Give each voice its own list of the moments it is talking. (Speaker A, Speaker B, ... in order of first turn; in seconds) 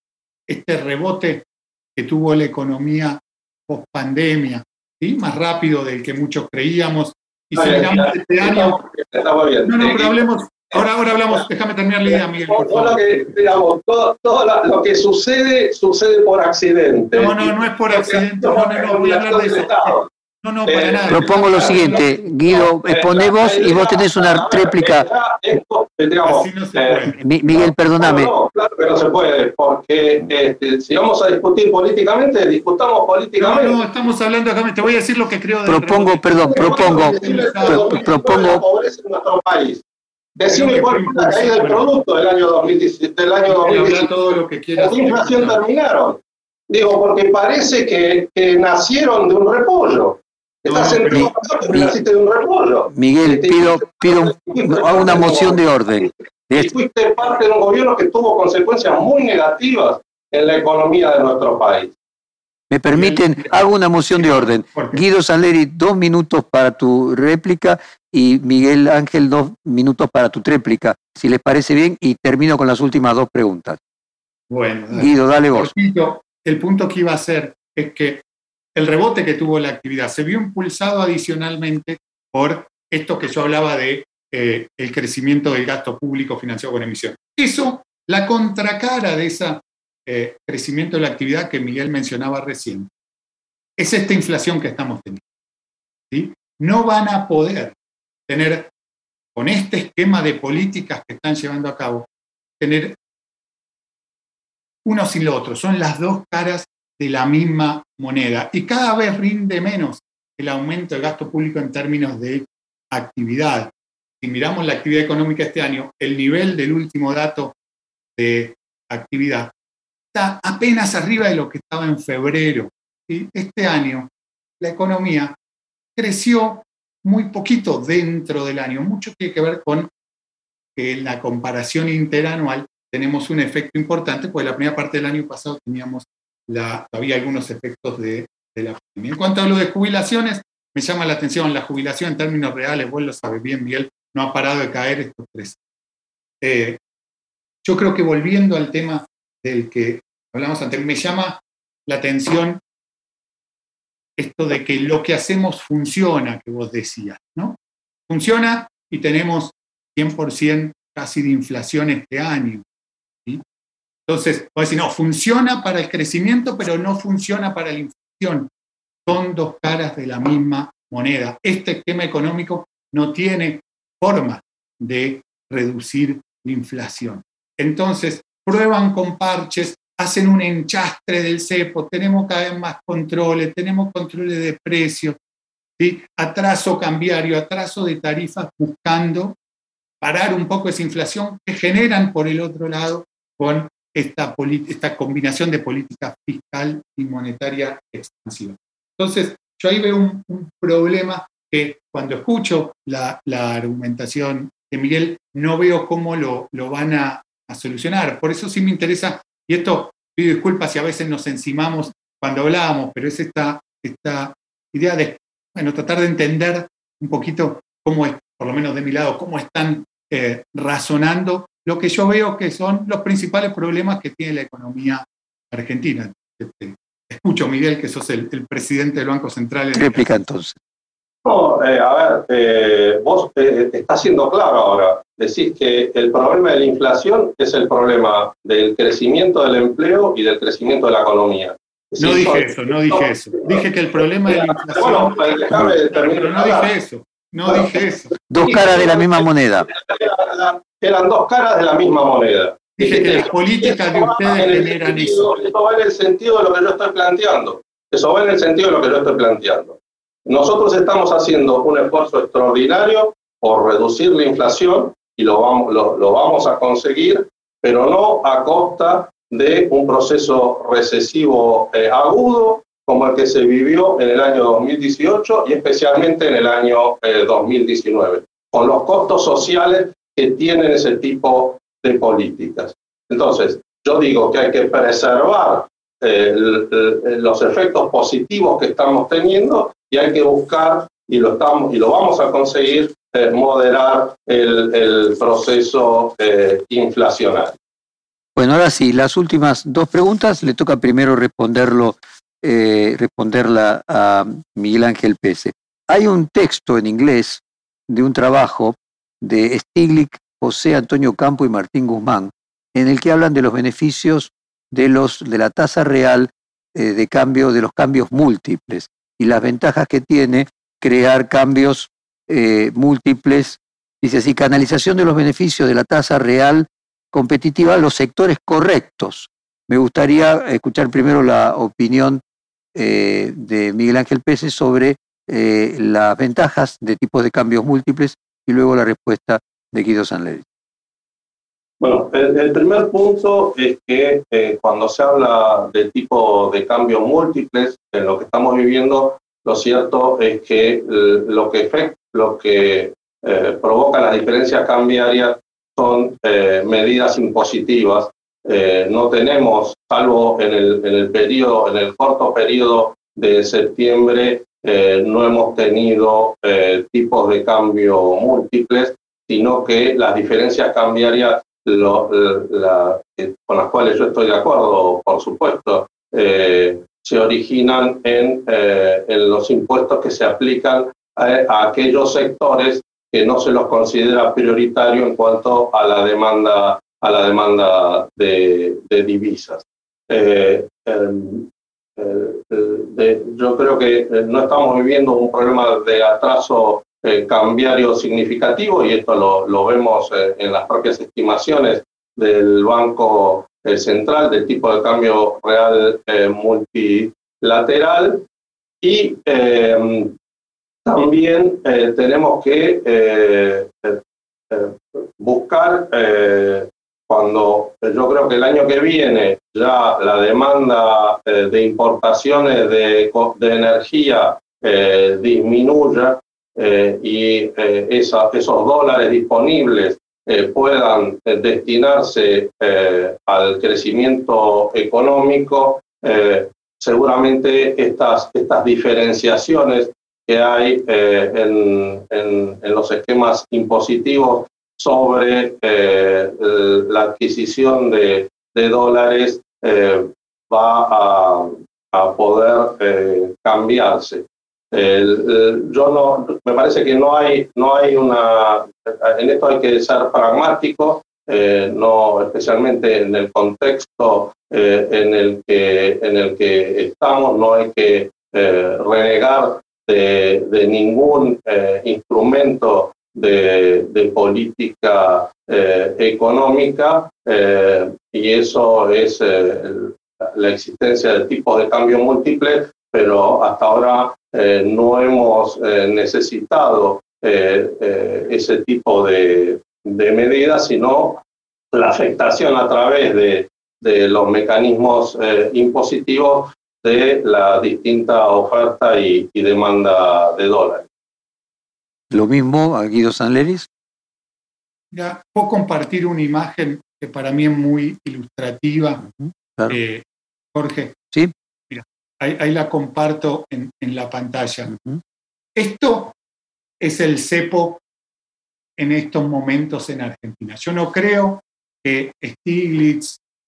Speaker A: 0.5-8.8, 9.7-13.4, 17.1-22.0, 26.2-27.2, 33.4-38.0, 40.4-41.9, 43.5-45.6, 50.6-51.4, 62.9-65.0, 74.5-92.9, 93.8-95.2, 96.1-97.7, 98.3-98.7, 99.3-102.1, 102.6-103.0, 104.8-117.5, 118.2-119.5, 120.1-125.4, 126.0-129.9, 130.8-145.6, 146.4-146.8, 147.6-152.6, 154.2-157.6, 158.1-162.6, 164.1-168.5, 169.1-185.2, 185.8-189.4, 190.0-230.1, 242.0-248.1, 252.8-255.3, 504.9-509.0, 509.7-511.0, 511.7-514.7, 515.5-516.1, 516.8-517.8, 518.8-523.2
Speaker B: 7.5-10.2, 12.1-20.1, 20.6-33.8, 36.5-39.8, 40.4-44.1, 44.8-55.6, 56.6-61.9, 231.2-243.7, 244.3-246.7, 247.4-297.6, 341.8-408.2, 408.8-410.1, 410.8-491.2, 491.7-500.9
Speaker C: 21.1-25.1, 27.1-28.3, 35.6-38.6, 51.1-52.0, 52.9-56.7, 62.7-73.8, 74.9-75.7, 229.7-230.6, 248.3-249.7, 298.4-332.2, 332.7-340.4, 502.1-503.7, 509.0-509.8, 514.7-515.0